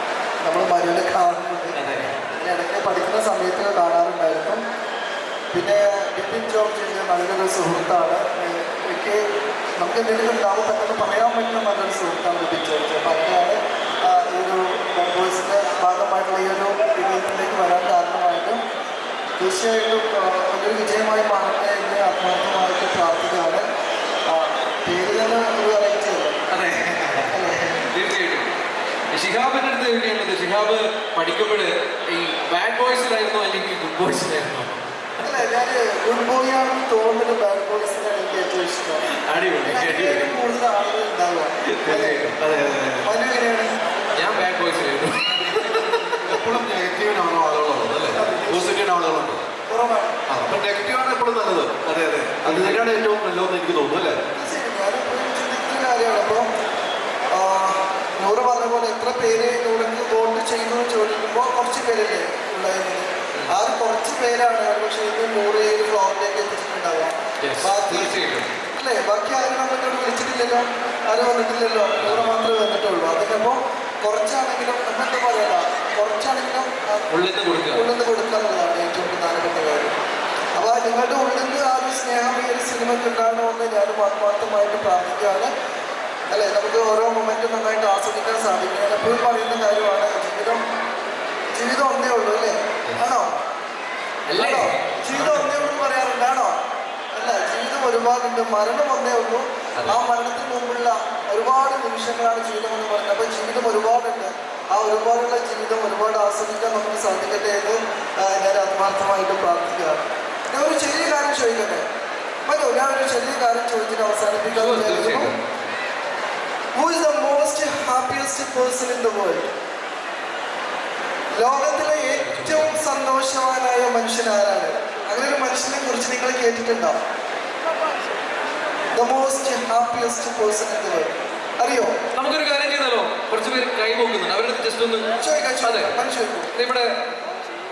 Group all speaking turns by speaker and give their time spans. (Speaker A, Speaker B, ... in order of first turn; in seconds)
Speaker A: 0.4-1.8, 2.3-4.6, 5.5-9.2, 9.8-18.6, 19.4-23.7, 24.3-26.4, 27.3-27.9, 35.2-39.1, 39.6-42.3, 43.0-44.0, 48.2-48.7, 49.7-50.2, 54.3-56.5, 57.3-68.2, 68.8-77.1, 77.7-80.0, 80.6-85.5, 86.3-90.6, 91.5-93.3, 94.3-96.6, 97.2-111.9, 112.5-115.3, 116.8-119.5, 121.3-127.0, 128.9-131.9, 135.2-136.5
Speaker B: 1.8-2.2, 26.5-27.4, 27.9-28.5, 29.1-35.3, 39.2-40.3, 41.6-43.1, 44.1-46.5, 52.4-52.9, 67.4-68.5, 72.0-72.3, 77.1-77.8, 94.3-95.5, 114.5-115.4, 122.2-122.8, 132.1-135.1, 135.6-135.9, 136.5-136.9
Speaker C: 46.2-49.5, 50.3-54.2